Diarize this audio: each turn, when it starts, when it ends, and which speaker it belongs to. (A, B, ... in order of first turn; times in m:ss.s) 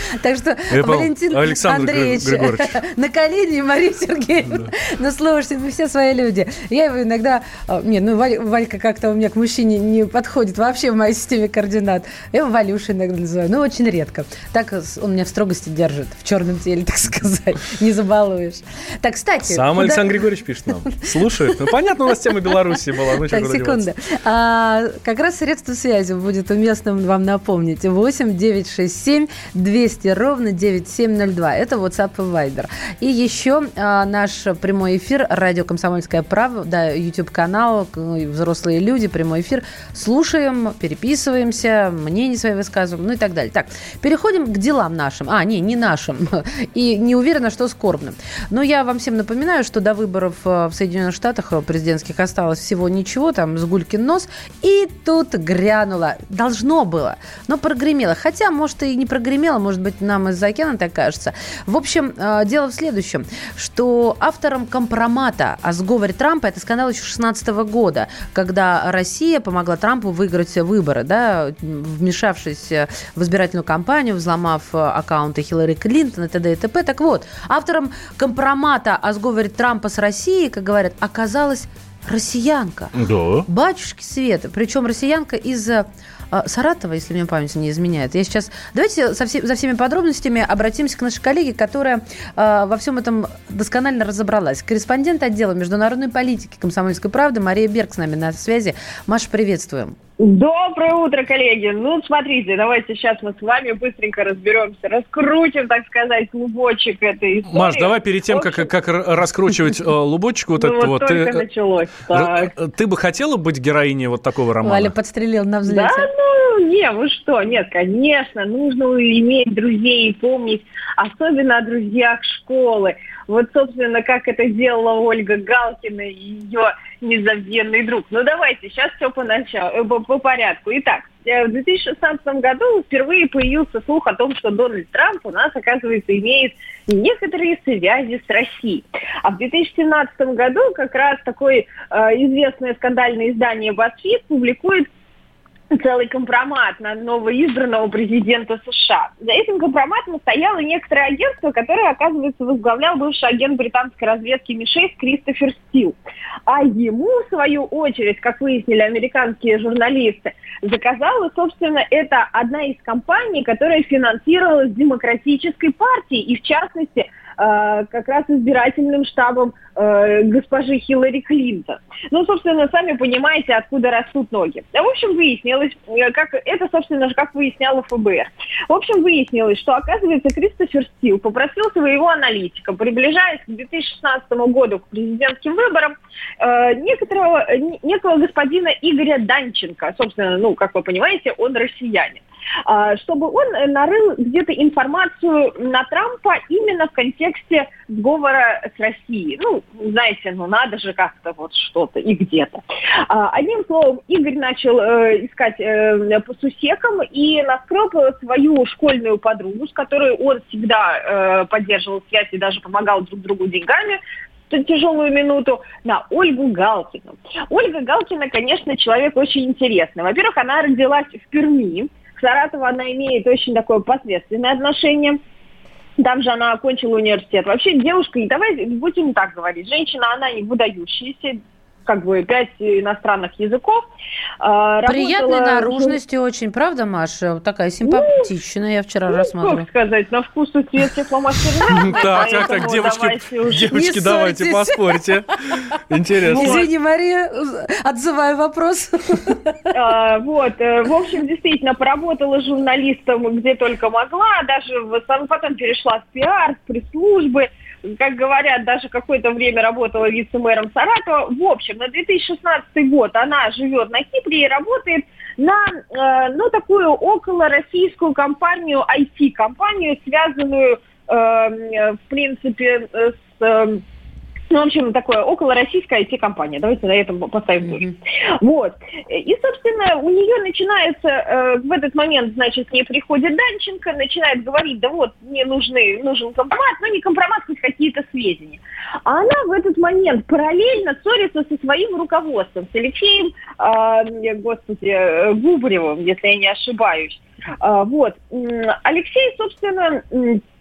0:00.2-0:20.1 A
0:00.7-0:02.8 B
0:19.5-0:23.8 B
0:23.2-1:22.9 A
1:22.9-1:23.5 B
1:23.5-1:40.0 A
1:40.2-1:48.7 C
1:47.5-1:51.4 B
1:50.5-1:52.5 C
1:52.1-1:54.9 B
1:54.6-1:56.1 A
1:55.6-2:24.9 C
2:25.7-3:45.2 C
3:46.0-3:53.8 C
3:54.4-3:56.0 C
3:54.8-3:59.7 A
3:57.8-3:58.3 C
3:59.1-4:03.6 C
4:01.7-4:06.7 B
4:03.7-4:04.8 A
4:06.3-4:09.6 A
4:06.3-4:06.6 C
4:09.7-4:33.8 C
4:34.5-5:00.4 C